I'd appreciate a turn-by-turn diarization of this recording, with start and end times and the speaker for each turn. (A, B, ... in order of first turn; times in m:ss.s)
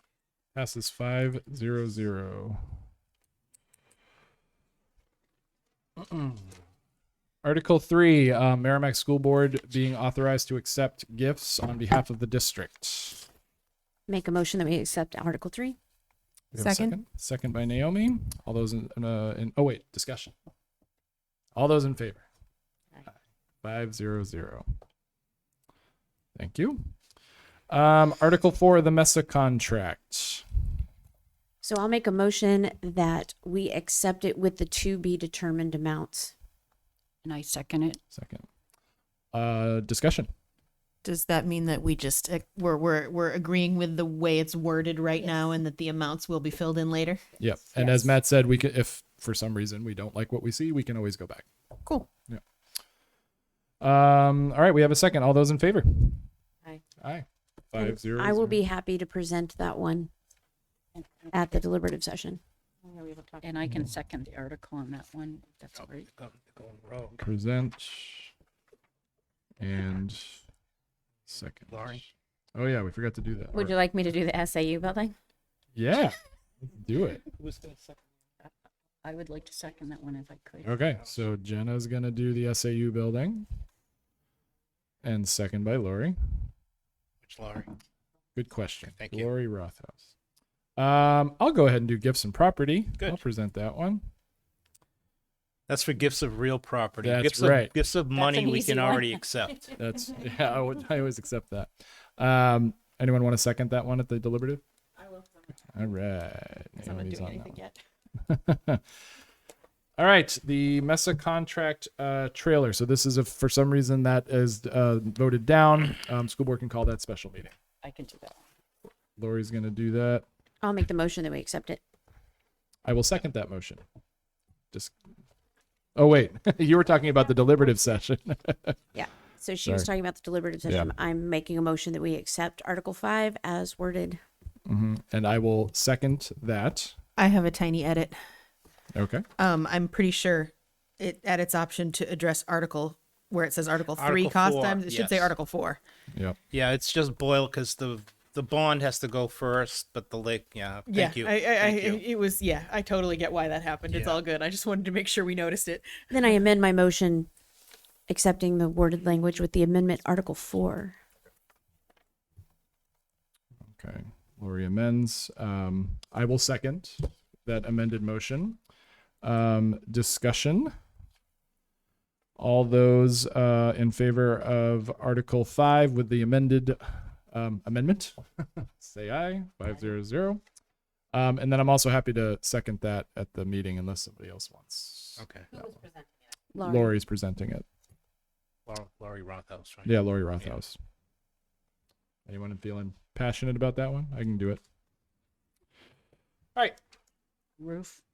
0:00.5-0:02.6 A
0:06.0-0:06.5 A
0:07.4-0:13.3 A
0:14.1-0:15.8 B
0:16.5-0:20.3 A
0:16.6-0:17.0 C
0:21.6-0:22.3 A
0:23.6-0:24.7 A
0:26.3-0:26.9 A
0:27.7-0:30.4 A
0:31.6-0:36.3 B
0:37.2-0:38.0 D
0:38.1-0:38.5 A
0:39.3-0:40.3 A
0:41.0-0:47.2 C
0:47.4-0:51.5 A
0:53.8-0:56.3 A
0:57.0-0:58.6 A
0:57.8-1:00.1 B
1:01.0-1:01.6 D
1:01.3-1:02.4 B
1:02.8-1:03.5 E
1:03.4-1:06.1 D
1:03.7-1:03.9 A
1:06.1-1:07.2 F
1:07.2-1:08.3 A
1:09.6-1:10.4 A
1:11.3-1:12.0 A
1:11.7-1:12.0 F
1:12.6-1:13.8 A
1:13.5-1:15.2 E
1:15.8-1:17.2 A
1:17.3-1:18.0 F
1:19.0-1:20.7 D
1:20.6-1:23.5 A
1:25.0-1:26.2 A
1:27.2-1:27.7 F
1:28.4-1:30.1 A
1:29.0-1:29.3 F
1:30.8-1:34.1 A
1:35.7-1:39.7 F
1:37.0-1:37.8 A
1:38.1-1:39.1 E
1:39.8-1:44.6 A
1:45.7-1:47.6 A
1:46.8-1:47.8 C
1:48.2-1:48.8 A
1:50.0-1:57.5 A
1:57.8-1:58.4 D
1:59.2-2:00.2 A
2:00.6-2:01.8 B
2:02.8-2:03.8 A
2:06.0-2:08.8 A
2:08.9-2:14.2 B
2:10.7-2:10.9 A
2:14.7-2:17.0 A
2:17.2-2:18.2 C
2:18.9-2:19.2 A
2:19.4-2:25.8 C
2:23.9-2:25.3 F
2:26.5-2:32.0 F
2:30.9-2:36.1 C
2:33.9-2:34.2 F
2:36.1-2:37.3 B
2:38.1-2:41.0 B
2:43.7-2:48.6 A
2:49.2-2:50.7 A
2:52.4-3:00.4 A
3:01.1-3:05.8 A
3:05.2-3:05.5 F
3:06.5-3:06.9 B
3:06.6-3:07.6 A
3:08.7-3:10.5 F
3:09.8-3:10.8 A
3:12.3-3:14.6 A
3:17.6-3:18.0 D